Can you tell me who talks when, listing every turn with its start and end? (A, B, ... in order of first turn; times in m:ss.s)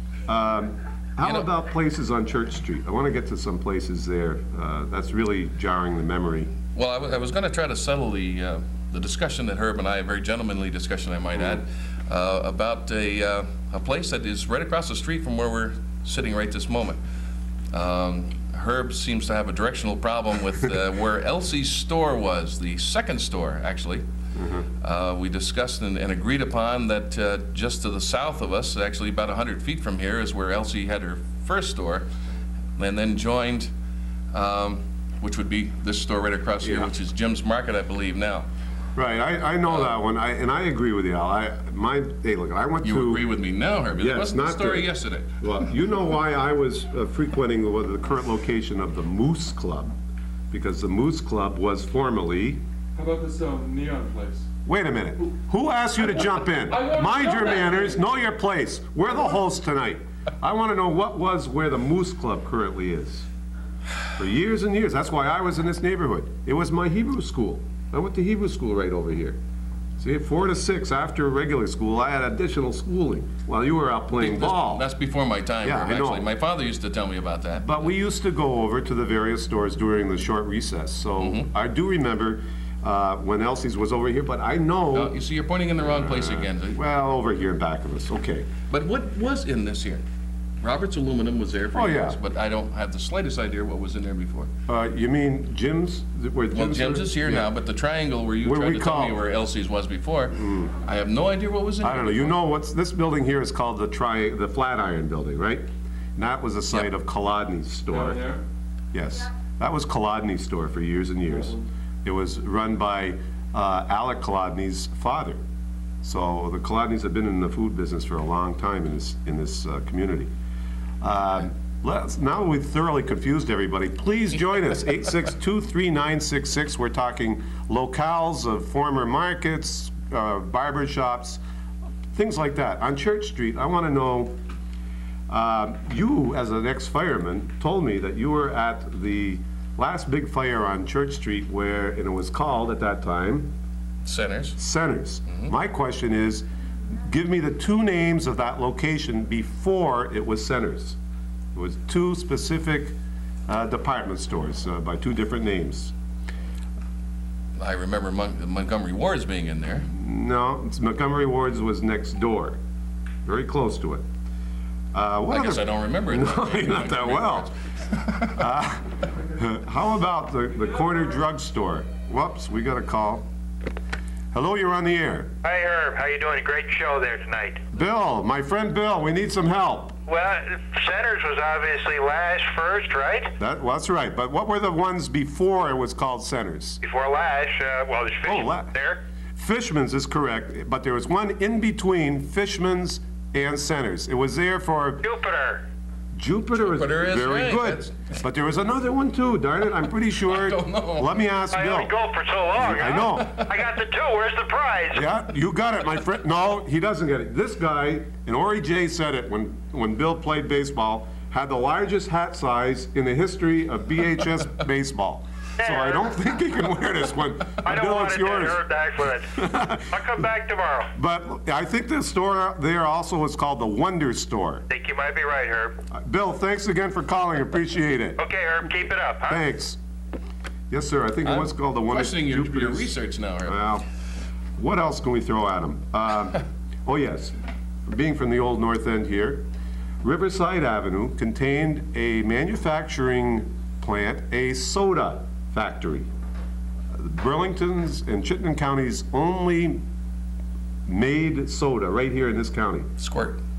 0:00.3-0:06.5 A
0:01.2-0:01.5 B
0:06.8-0:17.0 B
0:17.7-0:24.1 B
0:24.4-0:24.7 A
0:24.8-0:32.1 B
0:32.8-0:33.7 B
0:34.3-0:38.5 B
0:36.6-0:36.9 A
0:39.0-0:43.2 A
0:42.8-0:45.3 B
0:44.0-0:49.9 A
0:50.5-0:52.6 A
0:53.0-0:54.4 C
0:54.7-1:03.3 A
1:04.2-1:09.4 A
1:10.0-1:14.8 A
1:14.1-1:17.9 B
1:15.6-1:16.3 A
1:17.6-1:25.2 A
1:21.2-1:21.5 B
1:24.9-1:26.8 B
1:25.8-1:28.5 A
1:28.7-1:30.0 B
1:30.6-1:34.5 B
1:31.7-1:32.2 A
1:34.7-1:37.5 A
1:36.5-1:42.4 B
1:38.4-1:39.2 A
1:40.4-1:40.7 A
1:41.8-1:45.7 A
1:46.2-1:48.3 A
1:47.9-1:48.4 C
1:48.9-1:55.4 A
1:56.0-2:00.3 A
2:01.0-2:11.4 A
2:12.1-2:14.4 A
2:15.3-2:23.5 A
2:24.0-2:24.6 B
2:24.6-2:26.5 A
2:27.0-2:31.0 A
2:31.6-2:33.0 A
2:33.5-2:35.9 A
2:37.6-2:39.9 B
2:39.9-2:42.6 A
2:43.2-2:44.0 A
2:44.9-2:47.5 A
2:45.3-2:48.4 B
2:48.3-2:53.2 A
2:54.3-2:55.3 A
2:55.4-2:57.7 D
2:57.7-3:00.0 A
3:00.1-3:03.3 D
3:03.4-3:06.8 A
3:06.8-3:09.0 D
3:08.2-3:08.7 A
3:09.4-3:15.0 A
3:15.0-3:15.6 D
3:16.2-3:21.9 A
3:16.5-3:18.2 B
3:20.2-3:21.1 B
3:21.5-3:25.0 D
3:22.5-3:23.4 A
3:23.1-3:23.5 B
3:24.9-3:38.6 A
3:35.6-3:36.1 D
3:37.6-3:39.3 D
3:39.3-3:40.0 A
3:39.9-3:40.9 D
3:41.0-3:44.6 A
3:44.7-3:45.8 D
3:45.9-3:48.2 A
3:48.2-3:49.4 D
3:49.3-3:49.8 A
3:50.7-3:53.8 A
3:51.2-3:53.6 B
3:54.6-3:57.3 A
3:57.9-3:59.4 A
4:00.0-4:06.1 A
4:06.9-4:09.8 A
4:10.9-4:12.9 A
4:13.0-4:13.4 B